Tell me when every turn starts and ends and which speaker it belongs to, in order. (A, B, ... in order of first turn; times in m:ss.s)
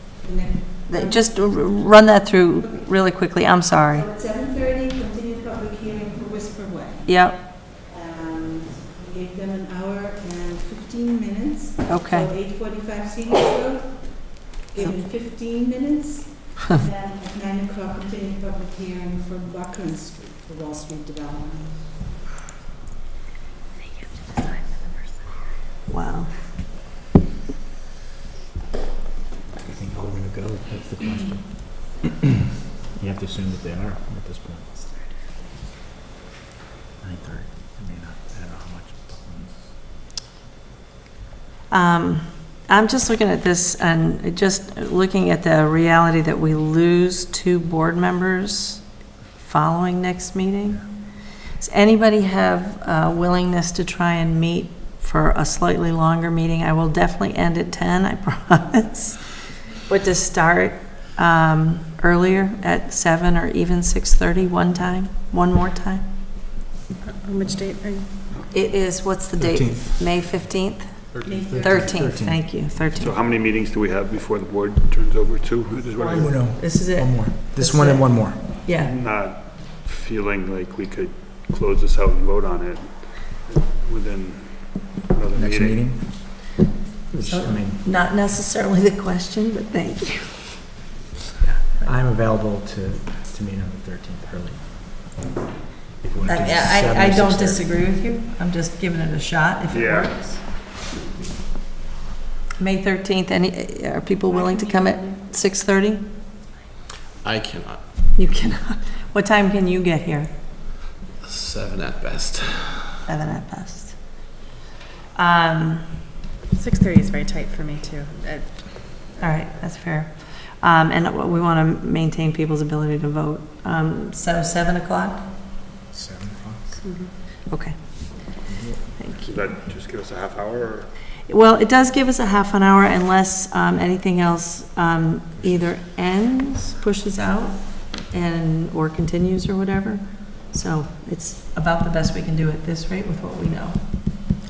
0:00.2-0:01.3 A
0:00.9-0:04.1 B
0:04.1-0:21.8 A
0:07.0-0:07.4 B
0:11.9-0:12.3 B
0:25.9-0:26.4 B
0:29.6-0:32.3 C
0:32.9-0:35.0 C
0:37.0-0:39.8 C
0:41.7-0:48.8 B
0:49.4-1:06.1 B
1:07.0-1:08.1 D
1:08.5-1:13.1 B
1:09.4-1:10.1 C
1:11.1-1:11.5 E
1:11.2-1:12.0 A
1:11.3-1:12.6 C
1:12.9-1:16.5 E
1:16.0-1:18.4 C
1:16.5-1:18.9 B
1:18.6-1:26.2 E
1:25.3-1:26.5 C
1:27.1-1:27.8 C
1:27.2-1:30.7 B
1:31.4-1:35.2 C
1:36.0-1:37.7 C
1:36.2-1:40.4 B
1:39.7-1:40.2 E
1:42.6-1:46.0 B
1:47.2-1:48.1 F
1:48.1-1:50.4 B
1:51.2-1:53.0 F
1:53.0-1:54.3 B
1:55.1-1:56.0 B
1:56.5-1:58.8 D
1:59.2-2:05.3 B
2:05.9-2:06.8 C
2:06.8-2:07.1 D
2:07.5-2:09.5 B
2:08.5-2:09.0 C
2:09.2-2:10.9 E
2:11.3-2:23.8 B